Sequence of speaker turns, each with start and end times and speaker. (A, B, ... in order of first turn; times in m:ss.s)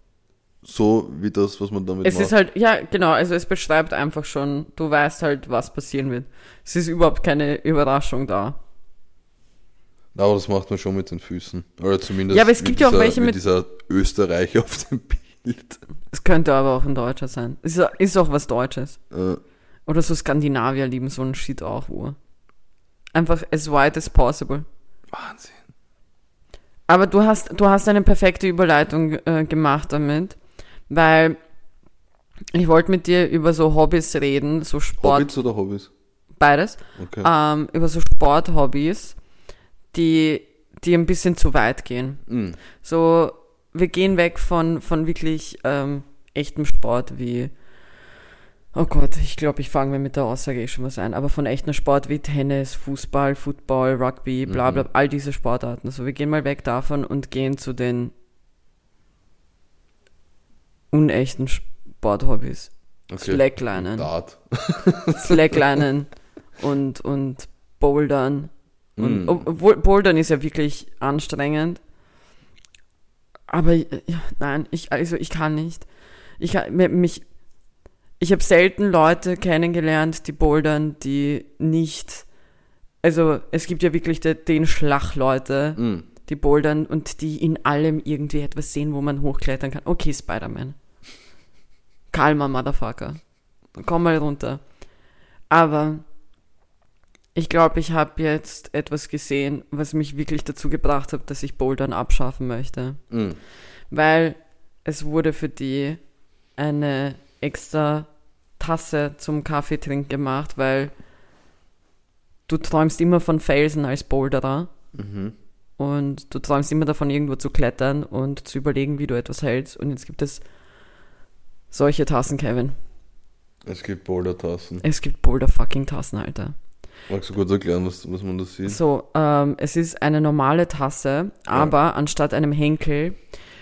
0:00.6-0:02.3 A
0:02.0-0:08.6 B
0:10.1-0:15.8 A
0:12.3-0:13.4 B
0:16.1-0:19.0 B
0:19.1-0:19.4 A
0:19.9-0:22.2 B
0:23.1-0:24.6 B
0:25.1-0:25.6 A
0:26.9-0:30.4 B
0:30.9-0:31.4 B
0:32.5-0:35.3 B
0:35.0-0:35.9 A
0:36.4-0:39.2 B
0:37.0-0:37.3 A
0:39.9-0:42.2 B
0:42.3-0:42.6 A
0:42.8-0:47.5 B
0:48.7-0:58.1 B
0:54.5-0:54.8 A
1:00.9-1:04.1 B
1:03.1-1:05.6 A
1:05.2-1:11.8 B
1:09.0-1:09.4 A
1:13.5-1:15.8 B
1:16.4-1:17.2 B
1:18.2-1:22.2 B
1:23.0-1:30.8 B
1:25.8-1:26.1 A
1:32.1-1:33.2 B
1:33.8-1:34.6 B
1:35.5-1:36.0 B
1:37.3-1:43.0 B
1:43.1-1:43.4 A
1:43.9-1:46.0 B
1:46.6-1:50.9 B
1:52.5-1:54.7 B
1:54.9-1:55.3 A
1:55.8-2:00.4 B
2:01.7-2:02.7 B
2:03.6-2:04.8 A
2:04.8-2:06.5 B
2:07.1-2:08.8 A
2:08.6-2:13.2 B